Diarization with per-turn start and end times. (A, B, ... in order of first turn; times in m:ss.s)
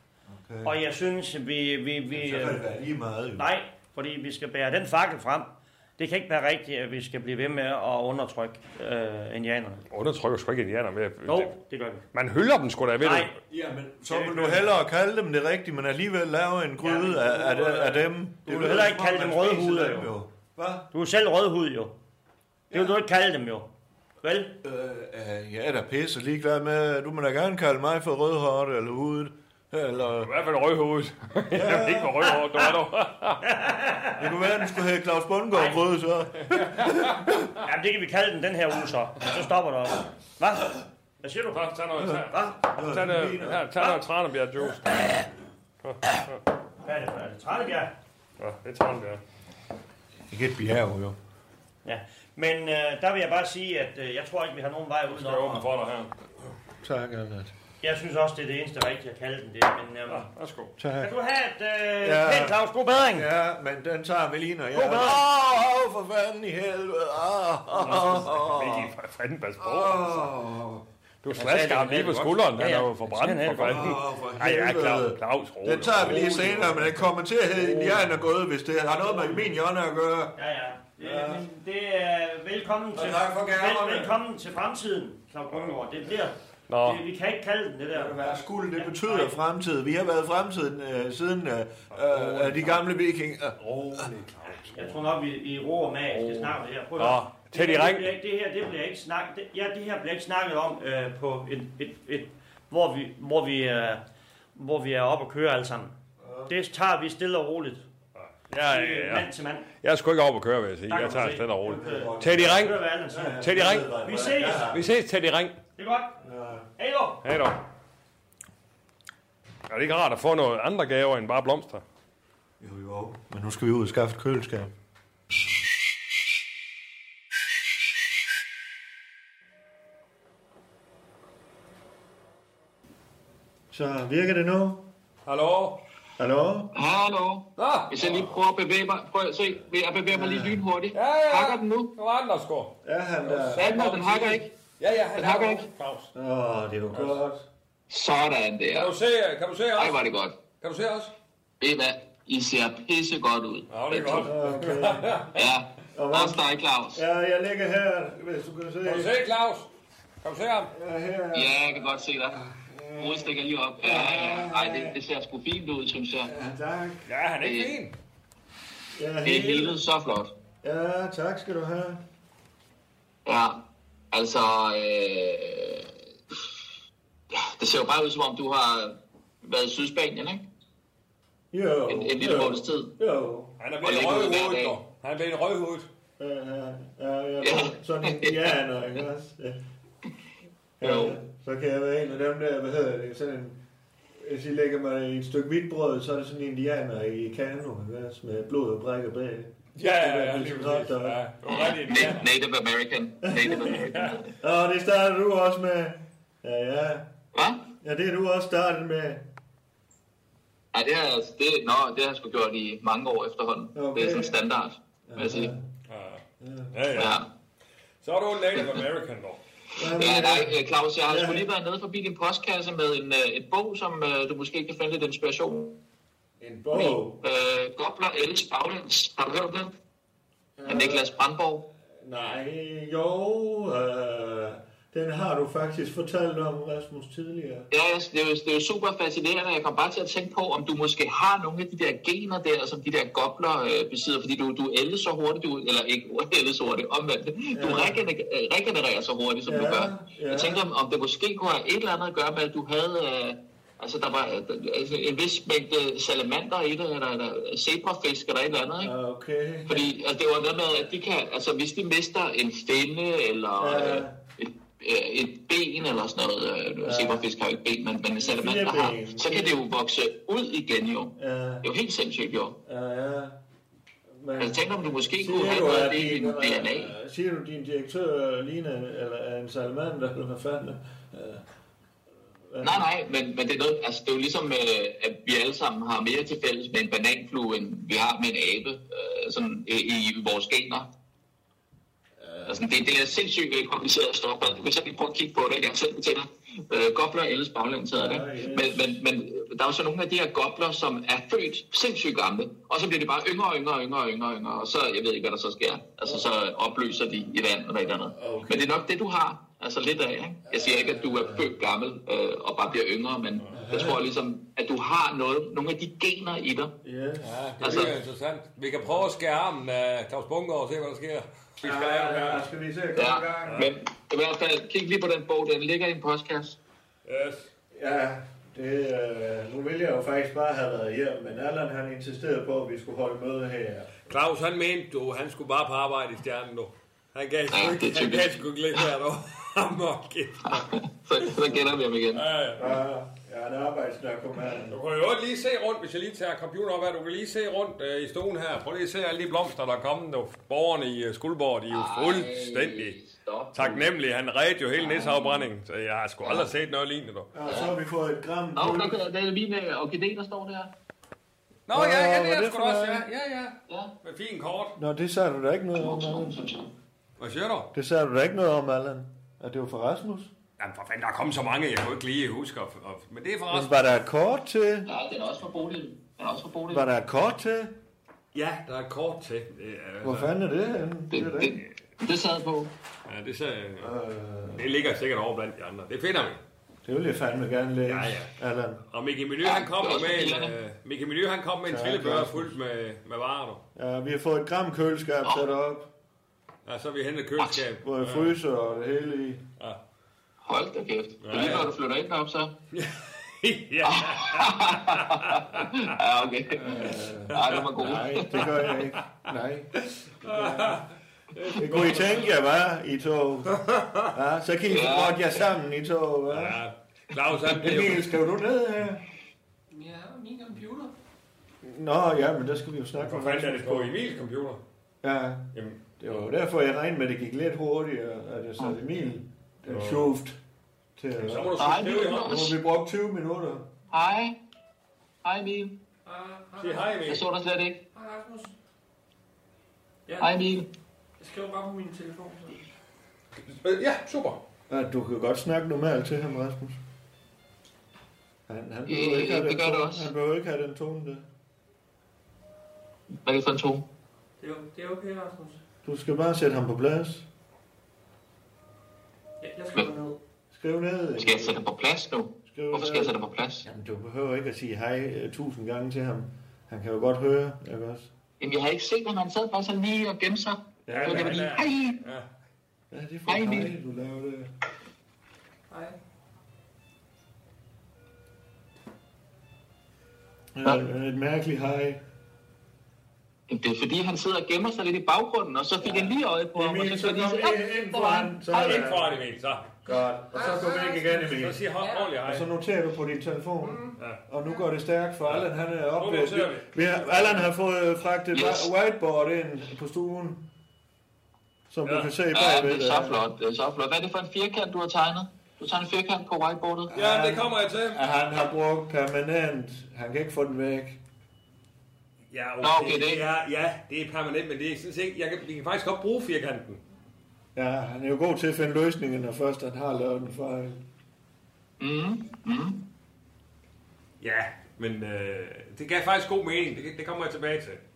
0:00.3-0:00.8 A
0:00.6-0:02.6 B
0:02.1-0:03.5 A
0:03.4-0:09.8 B
0:09.9-0:11.5 C
0:11.2-0:12.0 B
0:12.1-0:13.3 C
0:13.0-0:13.3 B
0:13.5-0:20.9 A
0:14.1-0:14.7 B
0:16.8-0:20.1 B
0:20.9-0:22.0 B
0:22.7-0:23.0 A
0:22.7-0:23.7 B
0:24.2-0:24.5 B
0:24.6-0:30.3 A
0:30.2-0:33.4 C
0:31.5-0:32.2 A
0:33.4-0:34.2 B
0:34.2-0:37.4 A
0:35.5-0:35.8 B
0:36.5-0:37.2 C
0:37.6-0:42.6 B
0:41.5-0:45.1 C
0:42.0-0:43.8 A
0:45.8-0:46.2 C
0:46.8-0:47.9 B
0:48.4-0:49.2 C
0:50.3-0:51.2 A
0:51.8-0:55.6 B
0:55.1-0:56.1 C
0:56.8-0:57.5 A
0:57.8-1:00.3 B
1:00.1-1:00.7 C
1:00.8-1:01.1 A
1:01.0-1:03.3 B
1:02.0-1:08.9 A
1:04.7-1:05.2 B
1:07.7-1:10.3 C
1:09.6-1:10.8 A
1:11.2-1:18.2 C
1:11.4-1:14.0 B
1:13.6-1:20.4 A
1:19.0-1:19.4 B
1:20.4-1:28.2 B
1:21.0-1:21.4 A
1:22.9-1:24.1 A
1:26.7-1:27.0 C
1:27.9-1:34.1 A
1:28.7-1:29.3 B
1:31.9-1:32.8 C
1:33.6-1:35.0 C
1:34.7-1:44.0 B
1:36.1-1:38.1 C
1:44.5-1:45.9 B
1:46.2-1:46.5 A
1:46.5-1:47.8 B
1:48.2-1:49.3 C
1:48.6-1:49.6 B
1:49.8-1:52.8 C
1:50.9-1:54.7 B
1:51.3-1:54.8 A
1:53.4-1:53.9 C
1:54.7-1:55.6 C
1:55.8-1:56.2 B
1:56.2-1:56.7 A
1:56.8-1:57.2 B
1:57.2-1:57.6 C
1:59.7-2:01.8 C
2:02.6-2:04.7 A
2:13.7-2:14.9 A
2:15.2-2:15.8 C
2:16.2-2:16.7 A
2:16.7-2:21.9 D
2:17.6-2:18.3 C
2:20.1-2:20.6 A
2:20.9-2:26.1 C
2:22.8-2:23.8 A
2:23.6-2:24.5 D
2:25.2-2:25.7 D
2:26.1-2:27.5 A
2:26.9-2:27.2 C
2:27.9-2:28.9 D
2:28.7-2:30.0 C
2:29.8-2:30.4 D
2:30.6-2:31.1 C
2:31.6-2:34.3 D
2:33.7-2:35.5 C
2:34.2-2:35.3 A
2:35.3-2:37.0 D
2:35.9-2:39.1 A
2:38.8-2:39.7 C
2:40.2-2:40.7 C
2:40.7-2:45.0 A
2:41.3-2:42.4 D
2:43.0-2:46.3 D
2:46.2-2:47.1 A
2:47.0-2:47.9 C
2:47.4-2:47.7 D
2:48.9-2:49.8 A
2:49.2-2:50.3 D
2:50.6-2:52.0 A
2:53.2-2:55.9 D
2:57.3-3:00.4 D
3:01.5-3:03.6 A
3:01.9-3:02.9 D
3:03.6-3:05.9 C
3:03.8-3:04.7 D
3:06.2-3:09.6 A
3:07.4-3:08.4 D
3:10.8-3:13.6 A
3:10.8-3:11.2 D
3:14.2-3:21.2 A
3:19.8-3:22.3 C
3:21.5-3:24.3 D
3:23.2-3:23.8 A
3:23.6-3:24.2 C
3:24.4-3:27.1 A
3:27.3-3:27.6 D
3:27.8-3:29.3 A
3:30.7-3:35.5 D
3:33.7-3:34.4 A
3:35.1-3:35.7 A
3:35.9-3:37.2 C
3:36.4-3:36.7 A
3:36.9-3:37.3 D
3:38.0-3:39.4 C
3:39.7-3:41.5 A
3:39.9-3:45.8 D
3:46.4-3:47.2 A
3:46.7-3:49.7 D
3:50.6-3:51.1 A
3:50.7-3:51.6 D
3:51.8-3:57.7 A
3:57.7-4:18.9 D
4:07.5-4:08.0 A
4:09.4-4:10.6 A
4:18.8-4:19.9 A
4:19.7-4:32.6 D
4:23.6-4:24.2 A
4:26.8-4:27.3 A
4:28.2-4:29.6 A
4:31.2-4:31.7 A
4:32.6-4:33.4 A
4:34.1-4:41.4 A
4:34.4-4:36.9 D
4:42.5-4:42.9 A
4:42.6-4:50.9 D
4:52.4-5:16.7 D
4:57.9-4:59.0 A
5:07.9-5:08.7 A
5:10.5-5:11.5 A
5:13.5-5:14.1 A
5:16.8-5:18.0 A
5:17.4-5:22.4 C
5:17.6-5:17.9 D
5:21.6-5:23.7 A
5:23.0-5:26.6 D
5:23.4-5:23.7 C
5:27.0-5:27.5 C
5:27.7-5:33.9 A
5:34.1-5:42.8 C
5:37.5-5:38.3 D
5:40.4-5:42.2 D
5:42.6-5:44.8 A
5:44.7-5:53.0 C
5:51.7-5:53.8 D
5:53.5-5:57.3 C
5:54.8-5:55.5 D
5:56.2-5:56.5 D
5:57.3-5:59.0 A
5:57.4-5:57.7 D
5:58.5-6:00.7 D
6:01.7-6:04.8 C
6:01.7-6:03.0 A
6:04.8-6:06.4 A
6:05.8-6:06.7 D
6:07.2-6:07.7 C
6:07.7-6:10.3 A
6:10.6-6:14.0 C
6:13.5-6:14.9 A
6:14.8-6:16.8 D
6:16.7-6:17.8 A
6:18.3-6:20.3 C
6:20.0-6:21.6 A
6:21.1-6:22.7 D
6:23.0-6:23.9 C
6:23.8-6:24.7 A
6:24.5-6:26.4 C
6:26.8-6:28.8 A
6:27.9-6:28.3 C
6:28.9-6:33.6 C
6:29.4-6:30.5 D
6:31.7-6:32.6 A
6:33.8-6:35.9 A
6:36.6-6:38.4 C
6:37.8-6:39.4 A
6:40.4-6:42.5 D
6:41.2-6:41.7 C
6:42.7-6:45.9 C
6:43.8-6:48.4 D
6:46.6-6:50.8 A
6:46.7-6:49.0 C
6:49.9-6:52.3 C
6:51.5-6:56.6 A
6:53.5-6:54.1 C
6:54.7-6:55.4 D
6:56.3-6:58.1 C
6:57.4-6:59.0 A
6:59.7-7:00.9 E
7:01.6-7:04.0 A
7:03.0-7:04.6 C
7:05.0-7:10.4 A
7:05.5-7:05.9 C
7:09.7-7:10.1 C
7:11.0-7:13.7 A
7:11.2-7:12.5 C
7:11.6-7:12.5 D
7:13.9-7:14.4 D
7:15.2-7:15.8 D
7:16.0-7:17.1 E
7:16.6-7:17.2 C
7:17.1-7:17.8 D
7:17.9-7:18.5 E
7:20.1-7:20.5 E
7:20.2-7:20.7 D
7:21.2-7:22.6 E
7:23.4-7:24.4 C
7:24.7-7:26.8 A
7:28.5-7:31.3 A
7:28.9-7:30.1 D
7:33.1-7:33.8 D
7:34.4-7:35.6 E
7:35.8-7:37.3 A
7:39.4-7:40.2 E
7:40.5-7:41.6 A
7:41.2-7:43.6 D
7:42.4-7:48.1 A
7:48.4-7:52.0 D
7:50.8-7:51.5 A
7:50.9-7:52.3 C
7:52.9-7:54.5 A
7:53.3-7:53.7 D
7:55.7-7:56.0 E
8:00.5-8:02.0 A
8:03.5-8:08.8 D
8:05.8-8:09.1 A
8:08.5-8:09.7 C
8:09.8-8:11.6 A
8:09.8-8:12.2 E
8:11.2-8:12.5 C
8:12.2-8:20.5 A
8:13.7-8:13.9 E
8:13.9-8:14.2 C
8:15.2-8:17.5 C
8:18.3-8:18.7 D
8:21.7-8:23.2 A
8:21.8-8:22.2 C
8:22.3-8:26.9 D
8:26.9-8:31.0 A
8:26.9-8:28.0 C
8:32.3-8:36.8 C
8:32.6-8:33.2 D
8:37.5-8:40.8 A
8:41.8-8:42.8 D
8:44.2-8:47.8 C